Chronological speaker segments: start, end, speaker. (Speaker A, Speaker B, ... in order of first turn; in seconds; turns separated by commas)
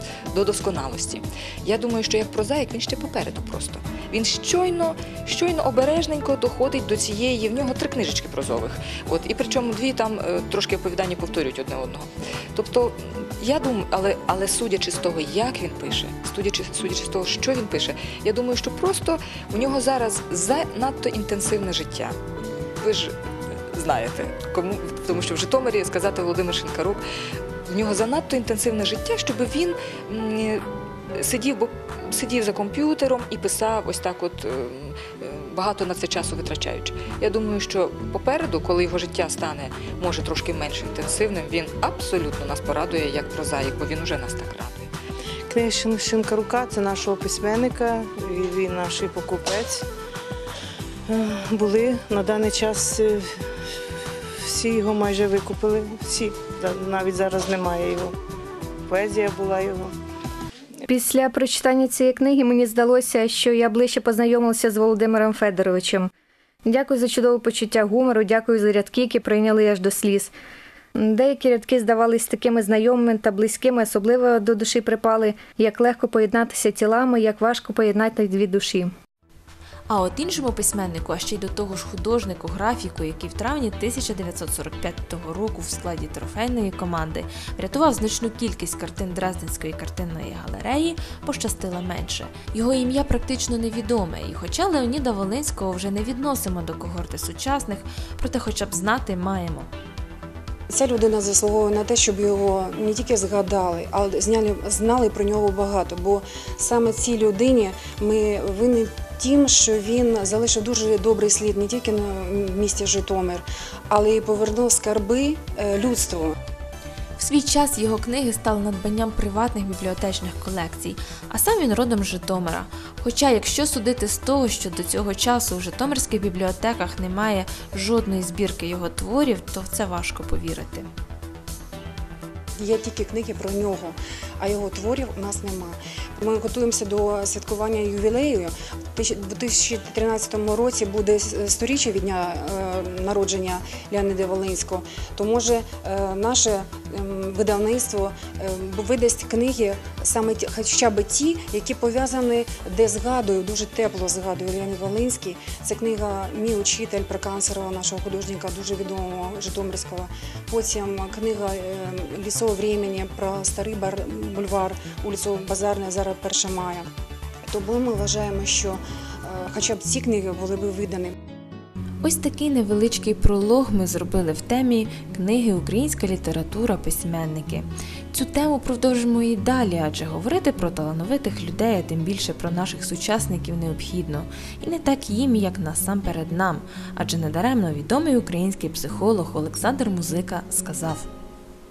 Speaker A: 0.3-22.2, Speaker A: 22.8-23.1, Speaker A: 23.7-27.0, Speaker A: 27.7-44.9, Speaker B: 45.5-49.9, Speaker B: 51.1-53.3, Speaker B: 54.4-58.1, Speaker B: 58.9-59.9, Speaker C: 60.9-66.1, Speaker C: 66.7-70.3, Speaker C: 71.0-78.9, Speaker D: 79.9-99.7, Speaker E: 100.7-116.3, Speaker D: 117.2-130.9, Speaker E: 132.6-166.9, Speaker E: 167.5-171.2, Speaker D: 172.0-191.1